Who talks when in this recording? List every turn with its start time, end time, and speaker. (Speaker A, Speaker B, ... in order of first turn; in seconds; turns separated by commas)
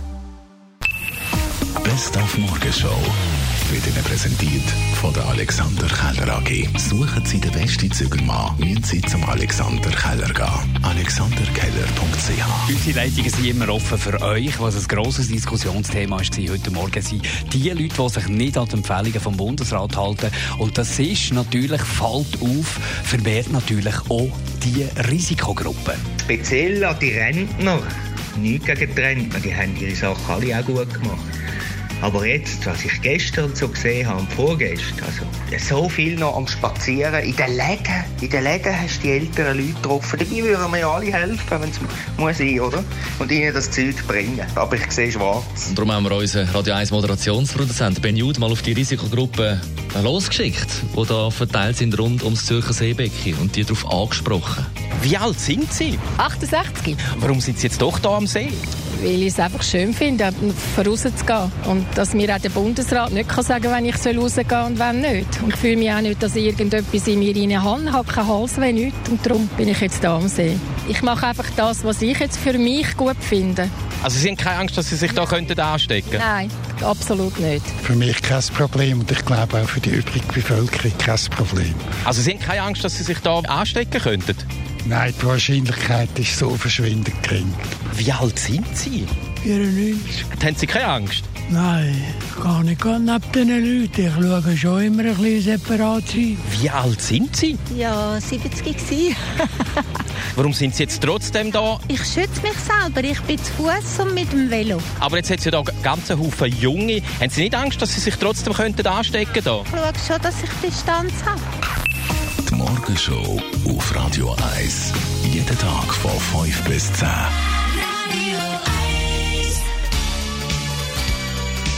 Speaker A: 1.8-12.6, Speaker B: 12.7-26.0, Speaker C: 26.2-31.3, Speaker C: 32.0-45.7, Speaker D: 45.7-54.7, Speaker E: 55.0-56.0, Speaker F: 56.2-57.0, Speaker E: 57.0-58.6, Speaker F: 58.9-73.7, Speaker E: 74.0-76.2, Speaker F: 76.1-77.7, Speaker G: 77.8-81.8, Speaker E: 82.0-84.5, Speaker G: 84.8-87.6, Speaker E: 87.9-89.1, Speaker H: 89.4-90.2, Speaker E: 90.4-91.3, Speaker H: 91.5-96.4, Speaker E: 96.4-97.6, Speaker I: 97.7-99.2, Speaker E: 100.3-101.8, Speaker I: 101.9-104.8, Speaker E: 105.0-109.7, Speaker I: 109.7-111.4, Speaker A: 112.5-117.3